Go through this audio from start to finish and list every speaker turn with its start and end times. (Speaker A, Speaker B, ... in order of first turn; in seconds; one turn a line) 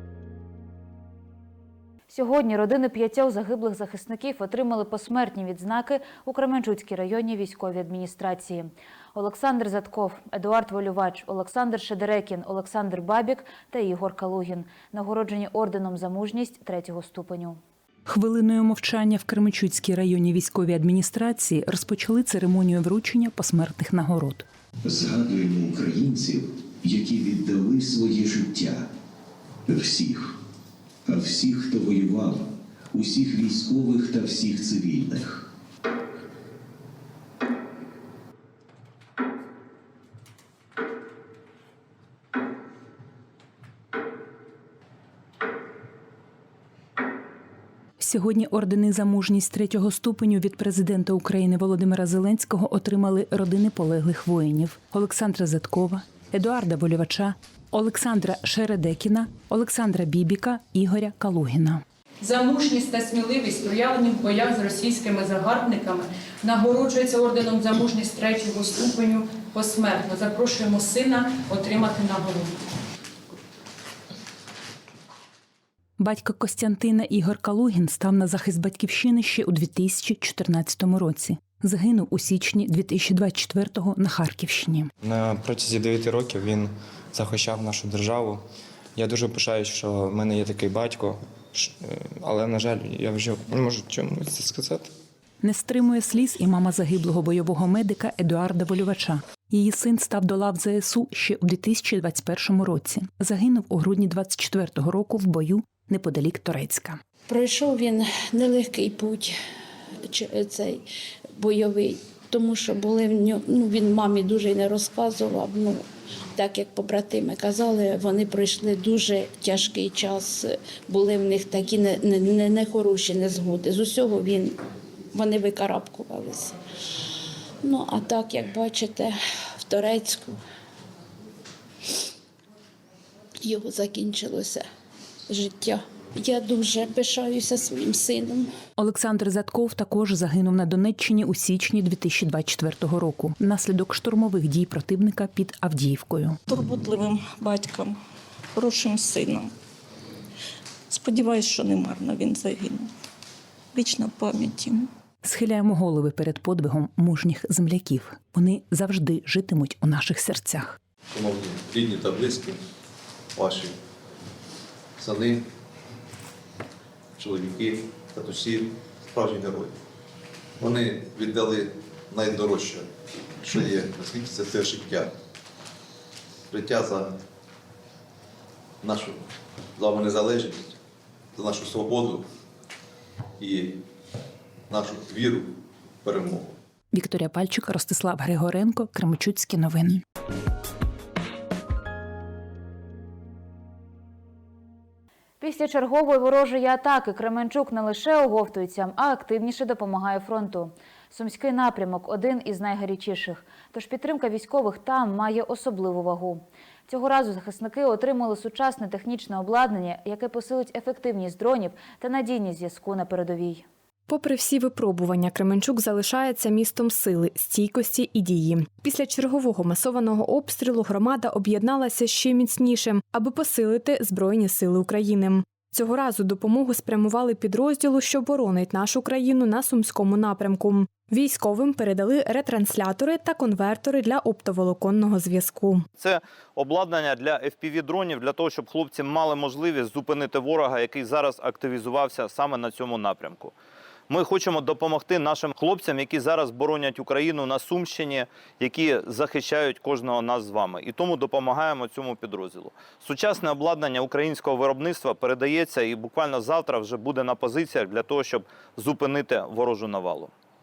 Speaker A: 2.1-17.6
Speaker B: 18.1-24.4
Speaker C: 24.9-28.8
Speaker C: 29.7-30.3
Speaker C: 31.1-32.4
Speaker C: 32.9-35.4
Speaker B: 48.0-61.8
Speaker D: 62.2-72.5
Speaker B: 76.0-84.9
Speaker E: 85.0-88.4
Speaker E: 89.0-94.9
Speaker B: 95.4-107.0
Speaker F: 107.3-109.3
Speaker F: 110.1-110.8
Speaker F: 111.4-115.8
Speaker F: 116.3-124.6
Speaker F: 125.1-126.5
Speaker F: 127.6-130.4
Speaker F: 133.4-134.7
Speaker F: 135.3-138.5
Speaker B: 138.8-146.4
Speaker G: 146.5-147.9
Speaker G: 148.6-149.5
Speaker G: 150.9-152.9
Speaker G: 153.7-154.8
Speaker B: 155.2-160.8
Speaker H: 161.2-162.5
Speaker H: 165.0-165.3
Speaker H: 167.2-167.6
Speaker H: 169.2-169.6
Speaker H: 170.7-171.5
Speaker H: 172.2-172.7
Speaker H: 173.5-174.9
Speaker H: 176.5-176.9
Speaker H: 179.8-180.4
Speaker H: 181.6-182.0
Speaker B: 186.9-190.0
Speaker A: 195.4-213.7
Speaker I: 214.1-235.8
Speaker J: 236.0-243.5
Speaker J: 244.1-260.3